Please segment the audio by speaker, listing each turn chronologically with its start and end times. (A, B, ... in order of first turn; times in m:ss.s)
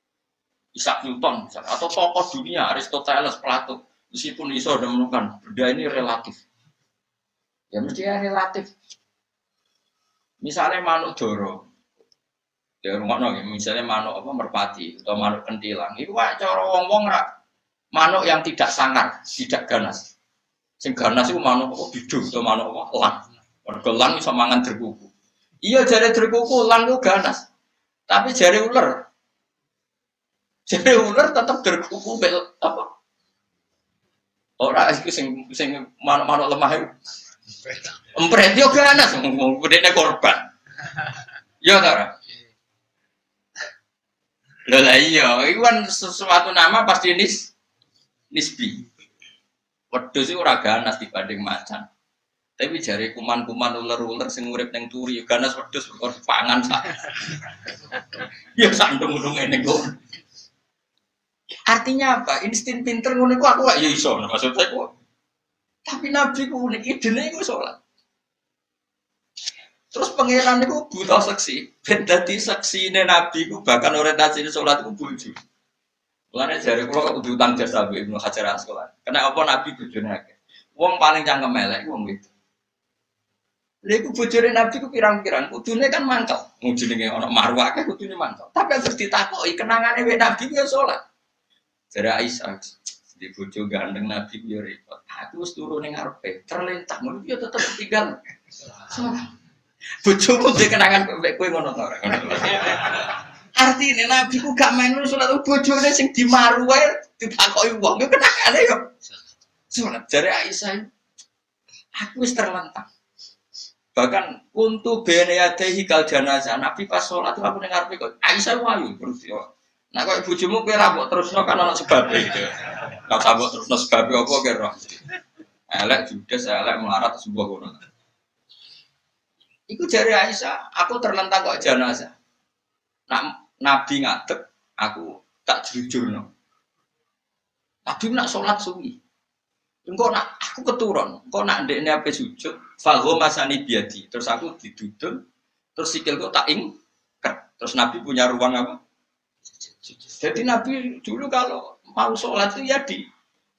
0:00.7-0:06.4 A
0:07.7-0:08.7 A
0:10.4-0:11.6 A
0:12.8-0:17.3 A
0:17.9-0:20.1 A
0:20.8-0:25.1 A
0:25.6-0:27.4 A
0:28.1-0:29.0 A
0:30.7-0:32.9 A
0:34.6-0:36.9 A
0:38.1-0:40.5 A
0:41.6-0:42.2 A
0:44.6-0:47.5 A
0:48.3-0:48.8 A
0:49.9-0:51.9 A
0:52.6-0:57.3 A
0:58.0-1:00.0 A
1:01.7-1:04.9 A
1:05.8-1:07.8 A
1:09.9-1:15.4 A
1:16.3-1:22.3 A
1:23.8-1:31.0 A
1:31.9-1:38.2 A
1:38.7-1:39.3 A
1:40.0-1:48.9 A
1:49.7-1:50.9 A
1:52.0-1:52.9 A
1:53.9-2:05.0 A
2:05.7-2:07.8 A
2:09.7-2:12.1 A
2:13.1-2:16.3 A
2:17.8-2:19.0 A
2:19.8-2:25.2 A
2:25.8-2:28.8 A
2:29.9-2:33.0 A